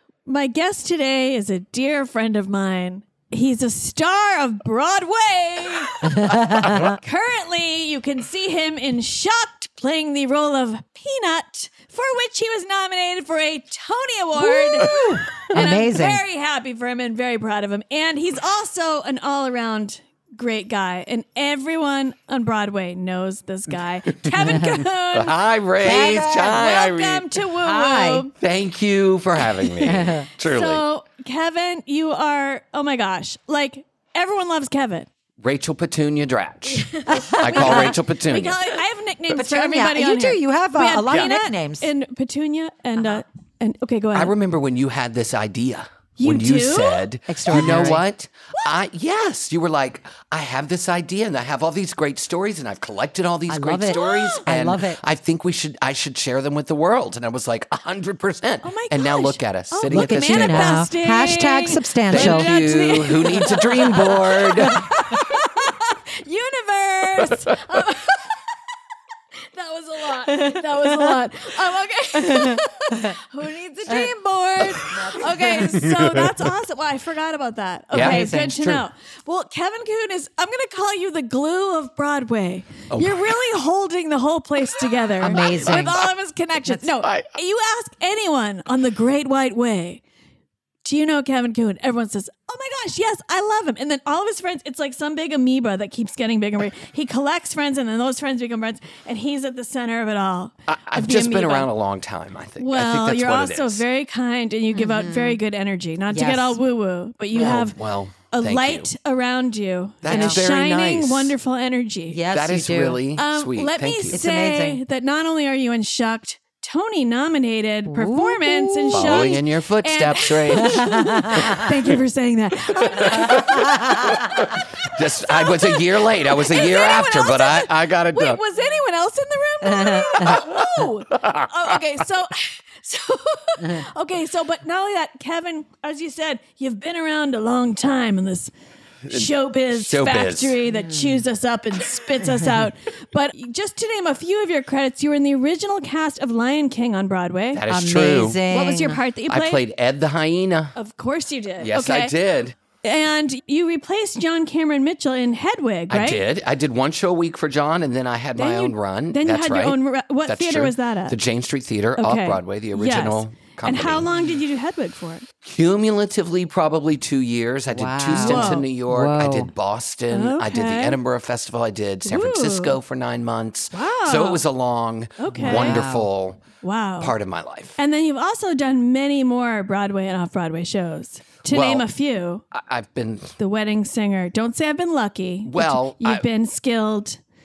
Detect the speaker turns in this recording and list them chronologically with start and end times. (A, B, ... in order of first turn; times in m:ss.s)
0:00.2-0:28.3 A
0:06.0-0:06.9 B
0:14.4-0:16.2 B
0:24.1-0:24.5 C
0:25.1-0:27.4 C
0:25.8-0:26.7 B
0:27.6-0:28.2 B
0:28.4-0:30.8 C
0:29.6-0:35.1 A
0:29.8-0:30.2 B
0:35.4-0:38.6 C
0:36.6-0:44.3 A
0:37.1-0:38.0 B
0:39.3-0:41.9 B
0:44.1-1:00.9 C
0:46.2-0:47.0 A
0:47.3-0:48.0 B
0:53.5-0:55.0 B
0:53.8-0:54.4 A
0:58.6-1:08.4 A
0:59.8-1:03.0 B
1:02.1-1:05.1 C
1:03.5-1:04.0 B
1:04.6-1:04.9 B
1:09.5-1:30.0 A
1:10.3-1:11.2 B
1:12.2-1:13.2 B
1:14.8-1:15.8 B
1:15.7-1:16.3 C
1:17.9-1:18.8 C
1:17.9-1:18.5 B
1:22.9-1:23.4 C
1:25.2-1:26.0 B
1:25.3-1:26.0 C
1:27.0-1:27.3 C
1:30.8-1:41.7 A
1:40.7-1:43.8 C
1:42.6-1:47.8 A
1:44.7-1:45.4 B
1:46.1-1:46.6 B
1:47.3-1:48.9 C
1:48.3-1:52.2 A
1:50.0-1:51.3 C
1:50.1-1:50.4 B
1:52.1-1:53.0 B
1:52.3-1:54.2 C
1:53.2-2:18.5 A
1:54.1-1:54.8 B
1:57.9-1:59.3 B
1:58.9-2:01.6 C
2:00.6-2:01.6 B
2:02.8-2:08.4 C
2:03.3-2:04.2 B
2:09.6-2:10.3 B
2:10.2-2:11.5 C
2:19.0-2:20.6 C
2:19.1-2:27.6 A
2:20.7-2:21.2 B
2:27.5-2:28.4 C
2:27.7-2:29.0 B
2:28.5-2:29.6 A
2:29.3-2:30.8 C
2:30.7-2:32.1 A
2:31.6-2:32.5 C
2:32.8-2:36.2 A
2:35.9-2:44.1 C
2:38.4-2:41.2 A
2:42.0-2:45.3 A
2:45.4-2:56.4 C
2:47.7-2:49.5 B
2:48.2-2:48.6 A
2:50.1-2:51.0 A
2:52.0-2:52.8 A
2:53.7-2:54.4 A
2:55.2-2:55.8 A
2:55.4-2:56.1 B
2:56.6-2:57.1 A
2:57.0-2:57.8 C
2:57.8-3:02.4 A
3:01.5-3:01.8 C
3:02.5-3:03.3 C
3:03.4-3:07.2 A
3:05.4-3:06.2 C